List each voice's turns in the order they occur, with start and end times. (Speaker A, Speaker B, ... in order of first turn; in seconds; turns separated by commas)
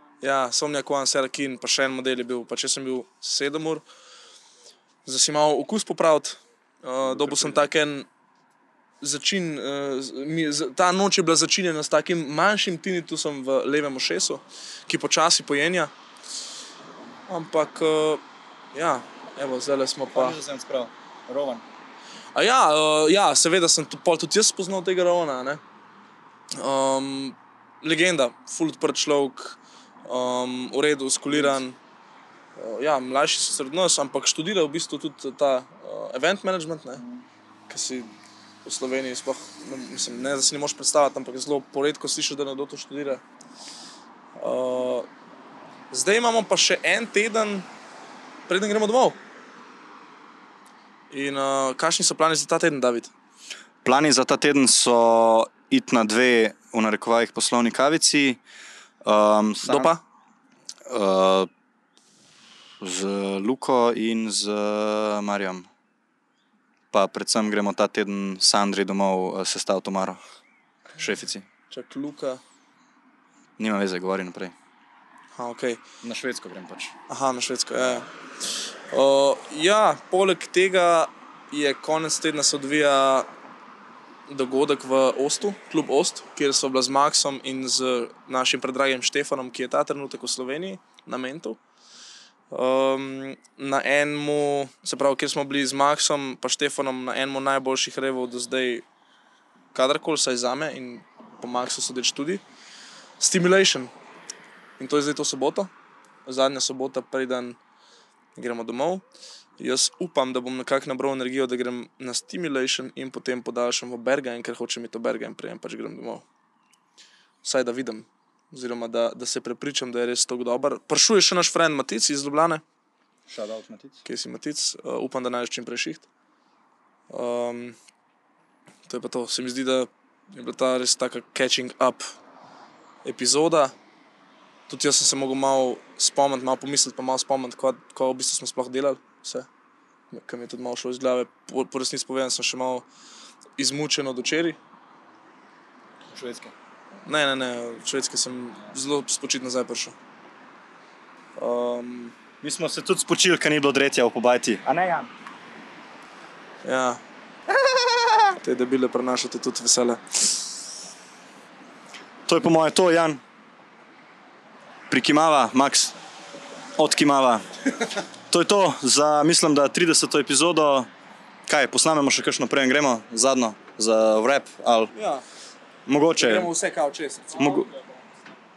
Speaker A: 0.2-3.8, Speaker A: 5.0-8.1, Speaker B: 7.0-7.7, Speaker A: 9.0-15.9, Speaker A: 17.3-18.2, Speaker A: 18.7-20.4, Speaker B: 20.1-21.6, Speaker A: 22.4-25.6, Speaker A: 26.6-31.8, Speaker B: 31.3-31.6, Speaker A: 32.6-37.0, Speaker A: 37.7-38.1, Speaker A: 38.6-43.2, Speaker A: 44.4-45.1, Speaker A: 45.9-47.7, Speaker A: 48.5-49.2, Speaker A: 51.1-53.1, Speaker B: 53.8-58.4, Speaker B: 59.0-59.9, Speaker A: 59.6-60.0, Speaker B: 60.9-61.5, Speaker B: 62.8-65.7, Speaker B: 66.9-70.2, Speaker B: 71.0-71.5, Speaker A: 71.7-72.4, Speaker B: 73.6-74.5, Speaker A: 75.3-75.8, Speaker B: 76.0-77.0, Speaker A: 77.1-78.1, Speaker A: 78.9-83.3, Speaker A: 84.3-91.6, Speaker A: 92.5-98.8, Speaker A: 99.7-102.4, Speaker A: 103.2-103.9, Speaker A: 104.8-105.7, Speaker A: 106.3-107.6, Speaker A: 108.4-109.0, Speaker A: 109.6-116.2, Speaker A: 117.4-122.6, Speaker B: 123.3-124.0, Speaker A: 124.1-126.1, Speaker A: 127.1-127.8, Speaker A: 128.9-132.0, Speaker A: 133.0-133.7, Speaker A: 134.7-139.5, Speaker A: 140.1-142.9, Speaker A: 143.6-144.6, Speaker B: 146.1-146.5, Speaker A: 147.1-149.9, Speaker A: 151.4-152.1, Speaker B: 152.4-155.1, Speaker A: 156.6-157.0, Speaker A: 158.4-160.4, Speaker B: 162.3-163.2, Speaker B: 164.9-165.9, Speaker B: 166.8-167.4, Speaker B: 168.3-170.9, Speaker B: 171.5-174.9, Speaker A: 174.9-175.2, Speaker B: 175.9-176.5, Speaker A: 176.2-177.8, Speaker B: 177.4-177.7